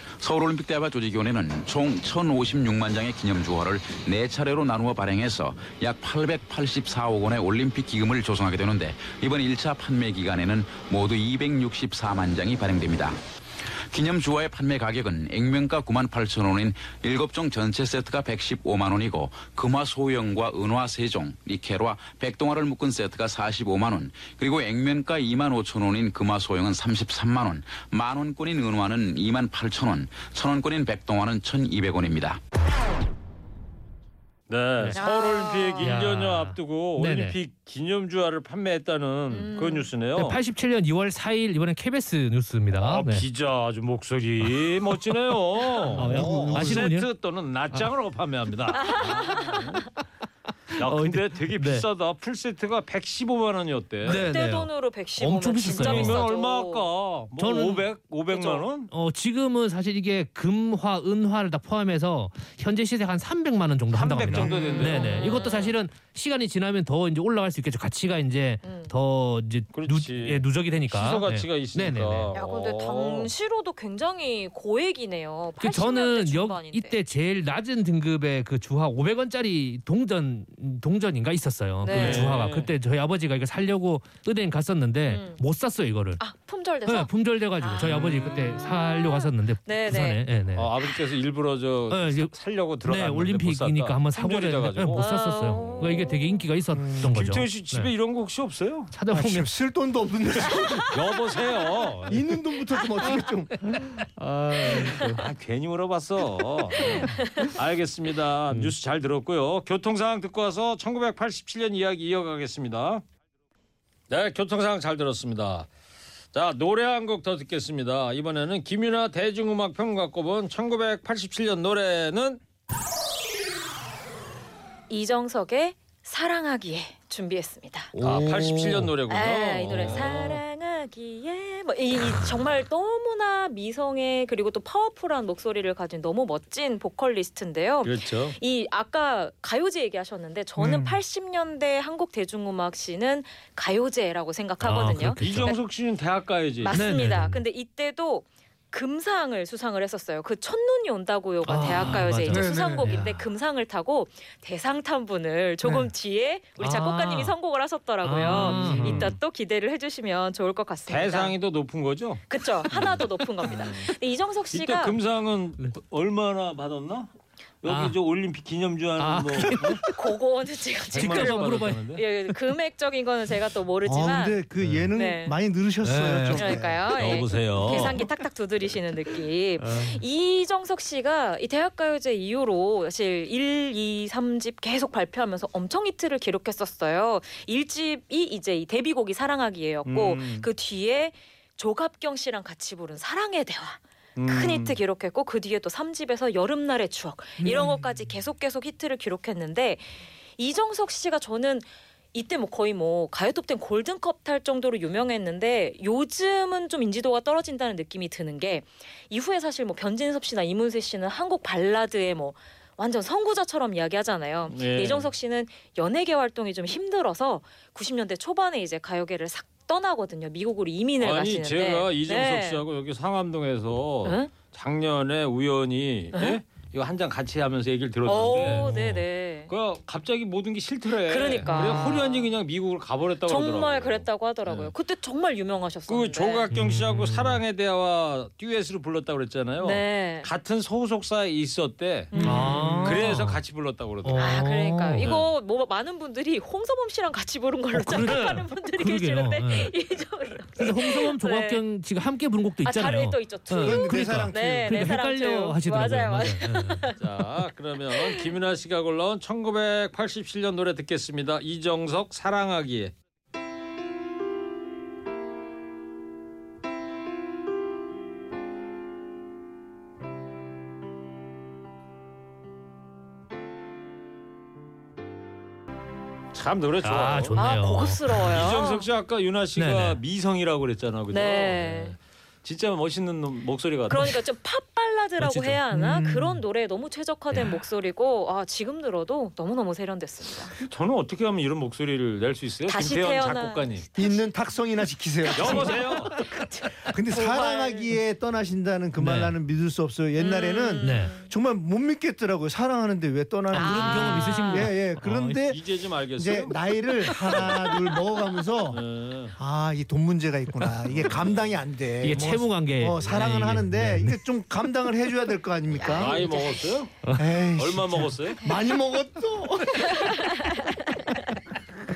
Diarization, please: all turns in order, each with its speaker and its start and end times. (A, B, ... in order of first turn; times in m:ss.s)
0:00.2-0:13.2 A
0:13.9-0:32.4 A
0:34.5-0:40.4 B
0:35.0-0:35.9 C
0:35.8-0:37.4 D
0:39.3-0:39.9 C
0:40.2-0:43.2 D
0:42.7-0:49.8 B
0:45.9-0:47.1 D
0:46.0-0:46.9 E
0:48.8-0:49.6 C
0:50.7-0:51.9 D
0:50.8-0:54.3 B
0:54.0-0:56.3 D
0:54.1-0:56.8 C
0:55.7-0:58.9 B
0:57.4-0:57.9 D
0:58.3-0:58.6 C
0:58.9-1:12.3 D
1:03.9-1:05.4 B
1:04.3-1:05.8 C
1:08.6-1:08.9 C
1:09.7-1:13.3 B
1:12.3-1:17.0 C
1:15.6-1:26.2 D
1:21.8-1:22.4 C
1:21.9-1:22.7 B
1:25.1-1:25.4 C
1:26.2-1:30.2 C
1:26.9-1:30.7 D
1:27.8-1:28.5 B
1:30.6-1:35.1 B
1:31.9-1:37.9 D
1:35.0-1:36.4 C
1:35.6-1:36.0 B
1:36.7-1:37.1 E
1:37.1-1:38.9 B
1:38.9-1:39.5 D
1:39.1-1:41.0 E
1:40.9-1:42.2 B
1:42.1-1:43.9 E
1:43.7-1:45.2 D
1:45.2-1:53.0 B
1:46.8-1:47.5 C
1:54.1-1:55.7 B
1:56.3-2:02.4 B
2:04.9-2:07.9 C
2:08.0-2:08.9 D
2:08.0-2:10.4 B
2:09.1-2:25.6 C
2:17.8-2:18.4 B
2:20.6-2:21.0 E
2:24.6-2:25.6 D
2:25.2-2:26.8 B
2:26.6-2:41.4 C
2:26.7-2:27.4 D
2:31.4-2:33.2 D
2:32.3-2:33.0 E
2:36.6-2:37.4 D
2:38.0-2:39.2 D
2:38.2-2:39.1 B
2:40.9-2:43.9 B
2:42.3-2:45.0 C
2:44.5-2:47.1 B
2:47.6-2:49.8 B
2:47.7-2:48.0 D
2:49.0-2:50.0 D
2:49.9-2:54.4 C
2:50.9-2:52.0 B
2:51.0-2:51.9 D
2:53.8-2:57.0 E
2:54.6-2:54.9 D
2:54.9-2:55.4 C
2:55.8-2:56.5 D
2:56.3-3:42.6 C
2:57.0-2:58.0 B
2:59.6-3:00.0 D
3:09.8-3:10.5 B
3:14.2-3:14.8 B
3:17.4-3:17.8 E
3:34.5-3:35.1 B
3:41.0-3:48.7 B
3:44.0-3:44.3 C
3:48.1-3:49.5 C
3:48.4-3:49.0 D
3:49.5-3:54.7 B
3:51.1-3:52.3 C
3:53.3-3:56.5 C
3:55.9-4:02.2 B
3:56.5-3:57.4 D
3:59.6-4:00.3 C
4:02.1-4:02.9 C
4:02.2-4:03.4 D
4:02.2-4:02.8 E
4:02.8-4:04.4 B
4:04.0-4:05.1 D
4:04.2-4:11.6 C
4:05.0-4:05.3 B
4:07.7-4:09.7 D
4:10.6-4:16.9 D
4:12.6-4:17.0 C
4:13.6-4:14.9 E
4:17.0-4:22.9 B
4:36.3-4:37.4 B
4:36.8-4:38.4 D
4:37.4-4:38.9 C
4:38.3-4:44.2 B
4:39.6-4:40.0 D
4:41.1-4:42.0 C
4:43.9-4:50.5 C
4:45.2-4:45.6 D
4:45.7-4:46.4 E
4:47.3-4:47.6 D
4:50.6-4:53.9 B
4:52.7-4:54.2 C
4:54.0-4:56.0 E
4:55.3-4:57.9 C
4:55.4-4:56.1 B
4:56.9-5:05.6 E
4:59.0-4:59.3 D
5:00.2-5:01.3 C
5:00.8-5:01.2 D
5:03.5-5:05.5 D
5:03.5-5:04.7 C
5:05.5-5:06.6 B
5:06.2-5:08.8 E
5:08.7-5:09.4 B
5:09.4-5:16.3 E
5:12.0-5:14.2 D
5:15.8-5:16.7 C
5:15.9-5:16.9 B
5:17.2-5:20.2 E
5:17.6-5:18.4 B
5:19.9-5:21.3 C